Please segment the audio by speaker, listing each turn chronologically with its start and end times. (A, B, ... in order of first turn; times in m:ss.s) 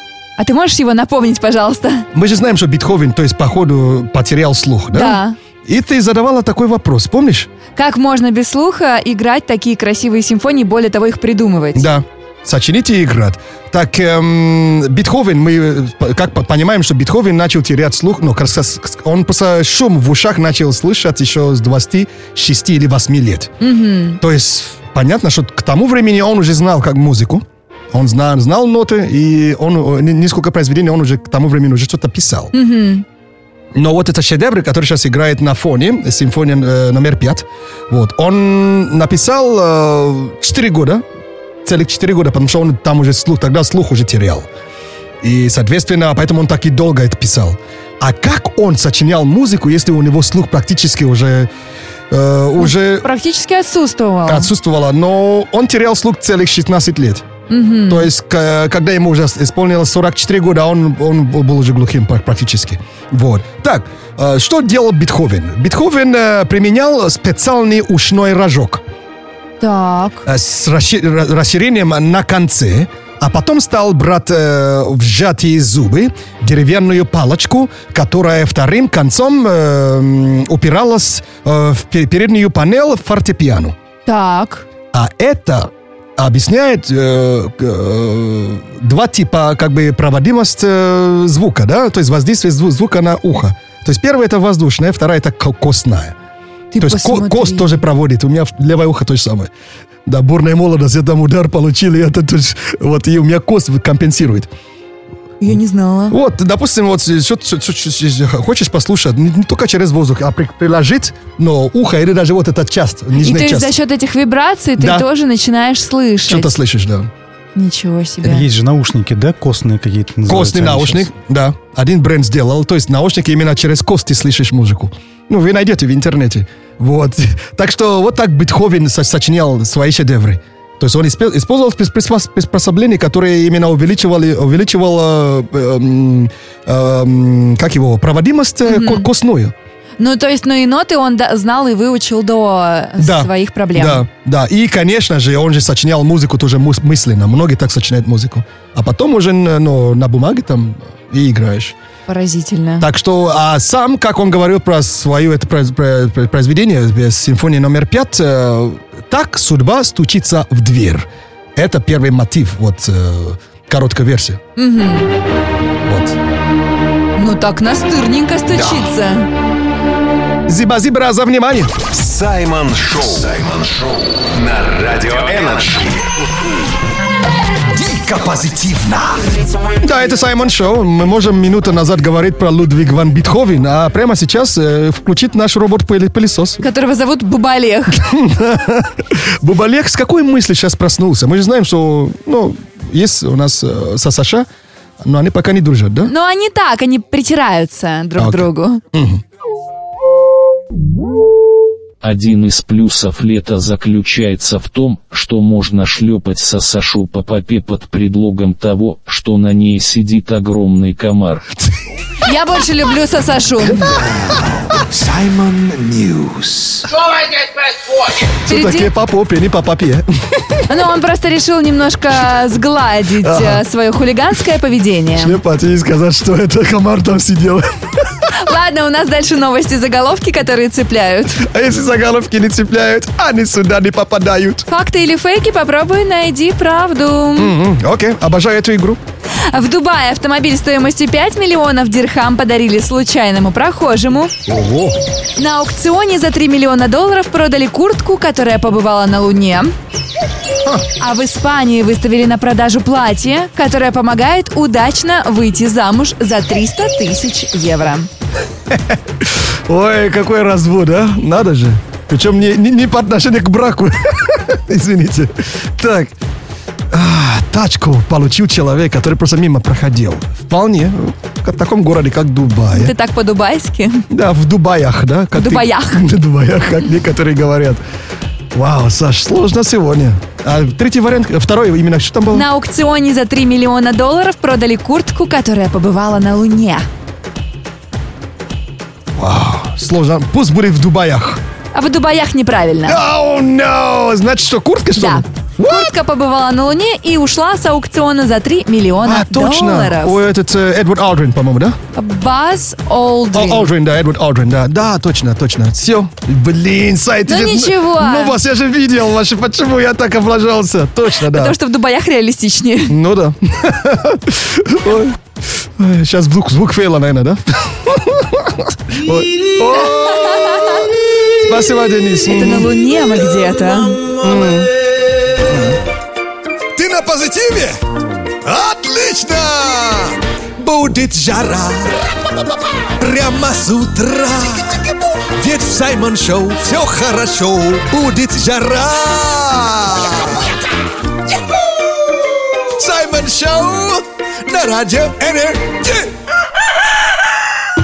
0:00.4-0:02.1 A
0:02.1-0:07.5 B
0:04.9-0:05.4 A
0:07.8-0:11.9 A
0:11.7-0:23.5 B
0:23.6-0:24.2 A
0:24.2-0:32.5 B
0:32.5-0:33.1 A
0:33.7-0:41.0 B
0:41.6-0:44.5 B
0:45.2-0:51.5 B
0:52.1-0:53.1 B
0:52.6-0:54.5 A
0:54.3-0:57.3 B
0:57.5-0:58.1 A
0:57.9-1:08.8 B
1:09.6-1:10.3 A
1:10.3-1:23.7 B
1:24.1-1:24.7 A
1:24.9-1:36.2 B
1:36.7-1:37.8 A
1:36.8-1:39.5 B
1:40.1-1:44.5 B
1:45.4-1:46.2 A
1:46.1-1:53.7 B
1:53.2-1:56.5 A
1:54.8-1:55.1 B
1:56.2-1:57.1 B
1:57.6-1:58.5 A
1:58.2-2:01.1 C
2:00.3-2:19.5 B
2:18.7-2:19.1 A
2:20.0-2:24.0 A
2:23.0-2:31.8 B
2:32.1-2:32.9 A
2:32.8-2:44.4 B
2:44.6-2:45.1 A
2:45.8-2:46.2 B
2:47.2-2:49.3 A
2:50.5-2:51.8 B
2:51.9-2:56.1 D
2:57.7-2:59.2 E
2:59.8-3:06.6 B
3:06.6-3:08.0 A
3:07.9-3:14.5 B
3:15.0-3:16.1 B
3:16.1-3:18.8 A
3:18.2-3:19.2 B
3:22.0-3:31.4 F
3:32.2-3:33.9 A
3:33.8-3:36.8 E
3:38.4-3:40.6 B
3:38.5-3:38.9 A
3:40.7-3:45.4 A
3:43.2-3:43.6 B
3:45.2-3:48.3 B
3:48.4-3:51.4 A
3:51.4-3:54.7 B
3:54.7-3:57.5 A
3:57.4-3:59.0 B
3:59.5-4:04.3 A
4:04.5-4:05.0 B
4:05.4-4:09.7 A
4:11.0-4:18.1 A
4:18.7-4:26.1 B
4:26.9-4:32.9 B
4:32.7-4:34.1 A
4:34.1-4:37.8 B
4:35.4-4:36.0 A
4:38.5-4:42.4 B
4:42.3-4:46.9 A
4:49.2-4:51.4 B
4:51.7-4:53.0 A
4:52.9-4:55.9 B
4:55.0-5:00.2 A
4:59.0-5:01.8 B
5:02.0-5:03.7 A
5:03.3-5:11.6 B
5:07.3-5:08.4 A
5:11.2-5:13.0 A
5:12.9-5:15.2 B
5:15.8-5:20.9 B
5:19.9-5:20.9 A
5:21.4-5:22.7 B
5:22.2-5:24.0 A
5:24.2-5:24.7 B
5:25.5-5:25.8 B
5:26.8-5:27.8 E
5:28.5-5:32.0 E
5:33.0-5:34.8 E
5:35.3-5:40.1 E
5:37.1-5:37.8 B
5:42.8-5:46.0 E